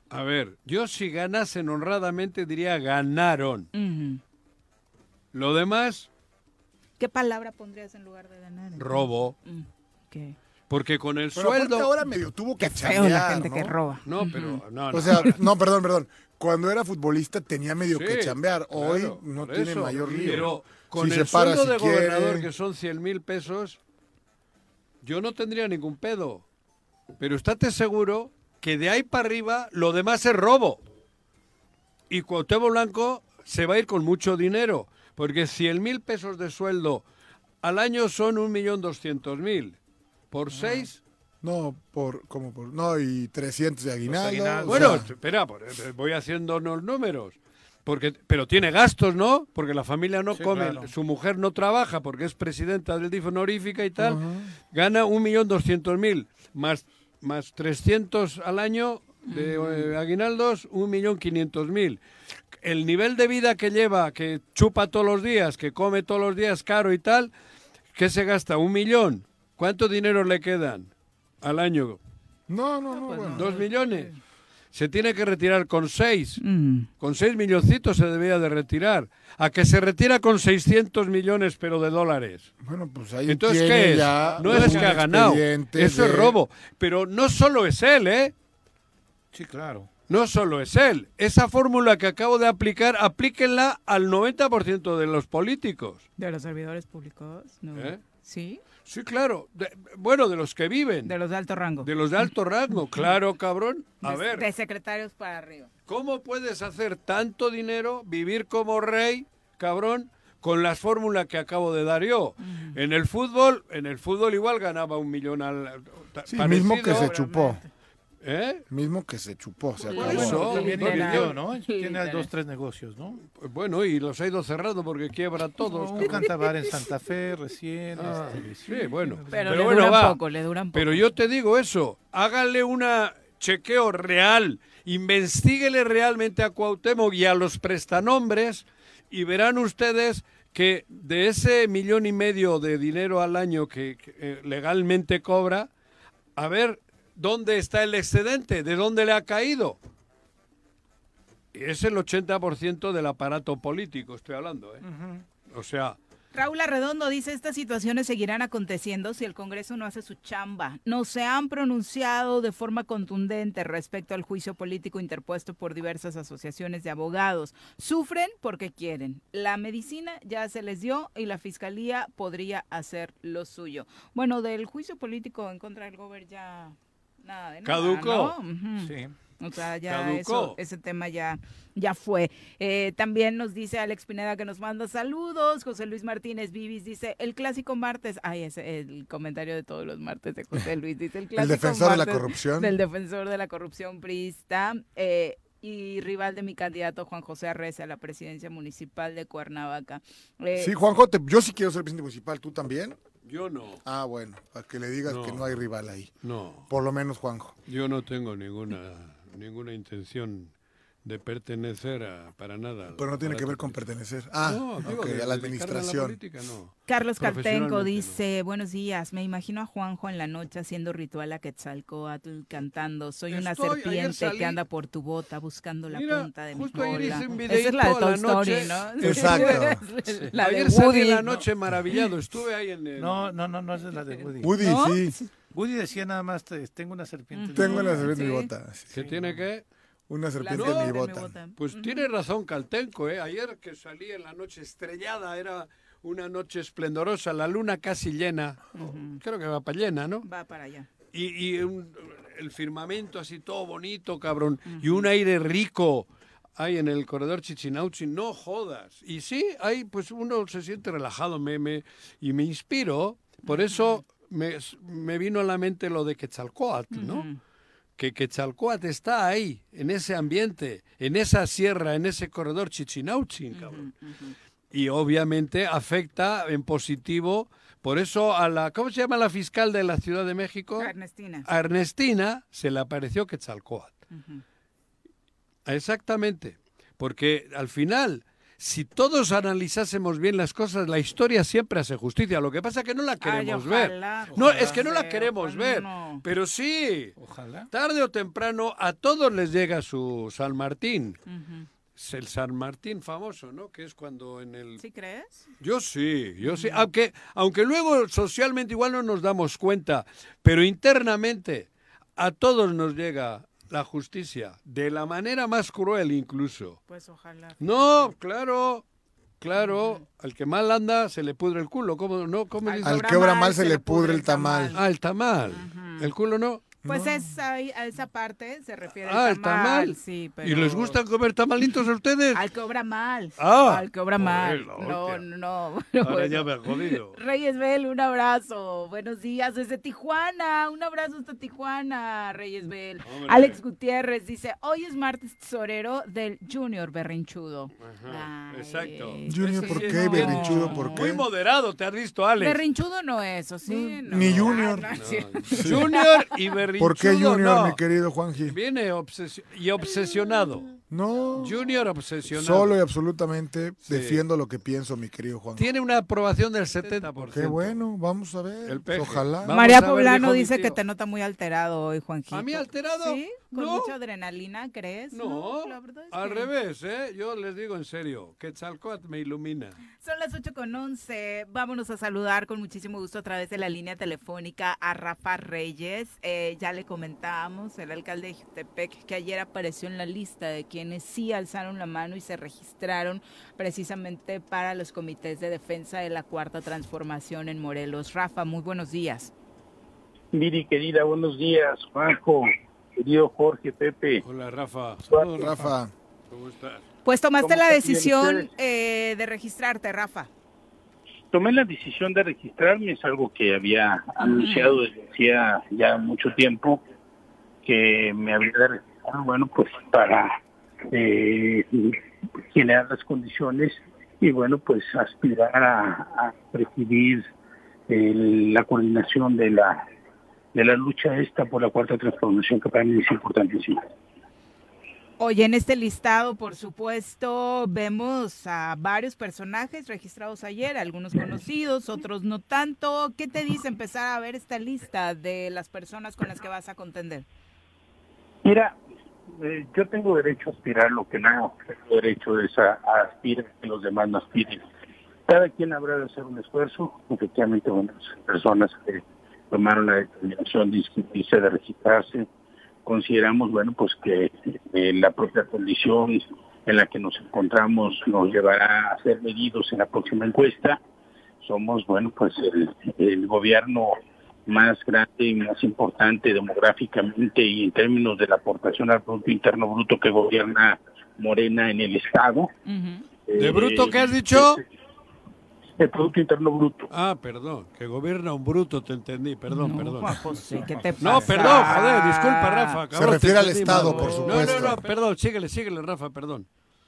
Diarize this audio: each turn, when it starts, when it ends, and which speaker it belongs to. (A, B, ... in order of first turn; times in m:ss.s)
0:00.1-0:03.7 A
0:03.7-0:04.2 B
0:05.3-0:06.1 A
0:07.0-0:10.4 B
0:08.8-0:09.4 A
0:10.7-0:11.9 A
0:11.3-0:13.7 C
0:12.6-0:14.6 B
0:14.0-0:15.4 A
0:14.9-0:22.5 C
0:17.9-0:23.8 A
0:25.0-0:26.4 A
0:27.2-0:30.8 A
0:32.1-0:37.0 A
0:37.6-0:39.8 A
0:40.3-0:41.0 A
0:40.5-0:40.9 D
0:41.4-0:45.1 C
0:44.0-0:45.0 D
0:44.6-1:02.0 A
0:50.3-0:50.9 D
0:54.0-0:54.5 C
0:59.3-0:59.9 B
1:02.6-1:07.3 A
1:07.9-1:10.9 A
1:11.4-1:12.0 A
1:12.5-1:13.6 C
1:13.0-1:14.2 B
1:13.3-1:14.1 A
1:14.7-1:16.4 A
1:16.4-1:16.9 B
1:17.0-1:22.5 A
1:22.6-1:26.4 C
1:23.2-1:28.3 A
1:24.2-1:25.0 D
1:29.3-1:29.9 D
1:30.1-1:36.0 A
1:36.2-1:38.6 B
1:37.7-1:38.0 A
1:38.8-1:41.1 A
1:41.0-1:41.9 B
1:41.8-1:44.5 A
1:44.0-1:45.7 B
1:45.9-1:57.1 A
1:52.4-1:52.8 B
1:56.3-1:57.6 C
1:56.8-1:57.6 B
1:58.2-1:58.6 A
1:58.7-2:00.7 C
1:59.9-2:02.3 B
1:59.9-2:01.4 A
2:00.5-2:03.2 D
2:03.3-2:06.2 A
2:05.6-2:09.9 D
2:08.0-2:10.2 A
2:09.3-2:11.1 B
2:10.7-2:25.7 A
2:26.4-2:29.8 A
2:31.5-2:34.8 A
2:34.8-2:35.2 D
2:35.5-2:36.0 A
2:36.3-3:20.7 B
2:57.6-2:58.4 A
2:58.8-2:59.1 D
2:59.9-3:00.6 A
3:11.3-3:12.8 C
3:20.5-3:23.0 C
3:23.2-3:23.8 A
3:23.8-3:26.2 C
3:25.0-3:25.6 A
3:26.2-3:26.7 A
3:26.7-3:27.6 C
3:27.7-3:30.5 A
3:31.0-3:33.9 A
3:32.9-3:36.2 C
3:34.4-3:38.2 A
3:36.9-3:51.3 B
3:43.3-3:44.6 A
3:45.9-3:49.7 A
3:49.0-3:49.8 C
3:50.3-3:53.3 A
3:53.0-3:54.8 D
3:53.9-3:55.1 B
3:54.4-3:55.2 C
3:55.5-3:58.1 D
3:57.3-3:58.5 B
3:57.5-3:59.0 C
3:58.9-3:59.6 A
3:59.0-3:59.4 D
4:00.1-4:01.3 C
4:00.4-4:02.1 B
4:00.5-4:01.0 A
4:01.6-4:10.3 A
4:08.7-4:09.2 B
4:10.2-4:10.9 B
4:11.1-4:27.3 A
4:14.7-4:15.1 B
4:23.4-4:24.0 B
4:26.9-4:27.4 B
4:28.0-4:33.9 A
4:33.5-4:34.3 B
4:34.7-4:40.9 A
4:40.8-4:41.5 B
4:41.4-4:43.9 A
4:44.1-4:44.4 B
4:45.6-4:57.2 A
4:53.2-4:56.2 B
4:54.3-4:54.8 D
4:57.2-4:57.7 D
4:57.7-5:01.2 A
5:01.3-5:01.7 B
5:02.0-5:04.8 A
5:04.8-5:05.4 B
5:05.6-5:16.8 A
5:06.4-5:06.8 B
5:16.9-5:18.1 B
5:17.6-5:18.8 A
5:19.4-5:23.1 A
5:19.6-5:20.0 B
5:22.6-5:24.8 B
5:22.8-5:24.8 C
5:24.8-5:26.6 A
5:25.5-5:26.1 B
5:26.8-5:27.2 C
5:26.8-5:31.0 B
5:29.0-5:32.4 A
5:32.3-5:51.0 B
5:33.4-5:35.2 A
5:36.0-5:37.2 A
5:43.0-5:43.6 A
5:47.8-5:52.6 A
5:49.3-5:51.2 C
5:52.4-5:56.0 B
5:53.7-5:56.0 C
5:54.1-5:57.8 A
5:56.8-5:58.6 C
5:58.5-6:00.7 A
6:00.9-6:01.6 C
6:01.4-6:02.8 A
6:02.3-6:05.7 C
6:03.8-6:04.2 A
6:05.6-6:07.8 A
6:06.8-6:07.1 B
6:07.2-6:09.5 C
6:08.6-6:10.8 A
6:09.5-6:16.5 B
6:12.3-6:13.9 A
6:15.1-6:19.8 A
6:20.0-6:39.3 B
6:40.3-6:44.2 E
6:44.2-6:45.4 A
6:45.1-6:45.7 D
6:45.4-6:45.9 C
6:46.3-6:46.8 A
6:47.0-6:50.3 B
6:47.4-6:48.5 E
6:51.3-6:56.8 E
6:54.2-6:54.8 B
6:57.6-7:00.3 E
7:00.9-7:02.0 E
7:02.5-7:07.3 E
7:07.9-7:09.8 E
7:10.5-7:13.8 E
7:15.2-7:27.2 B
7:28.4-7:28.8 E
7:29.3-7:34.6 E
7:35.3-7:42.3 E
7:42.8-7:50.8 E
7:51.4-7:53.9 E
7:54.5-8:02.5 E
8:02.6-8:03.1 B
8:03.3-8:04.6 E
8:03.4-8:04.6 A
8:05.8-8:06.9 E
8:06.9-8:10.2 A
8:09.5-8:12.8 B
8:11.0-8:16.4 A
8:12.9-8:14.8 C
8:13.6-8:14.7 B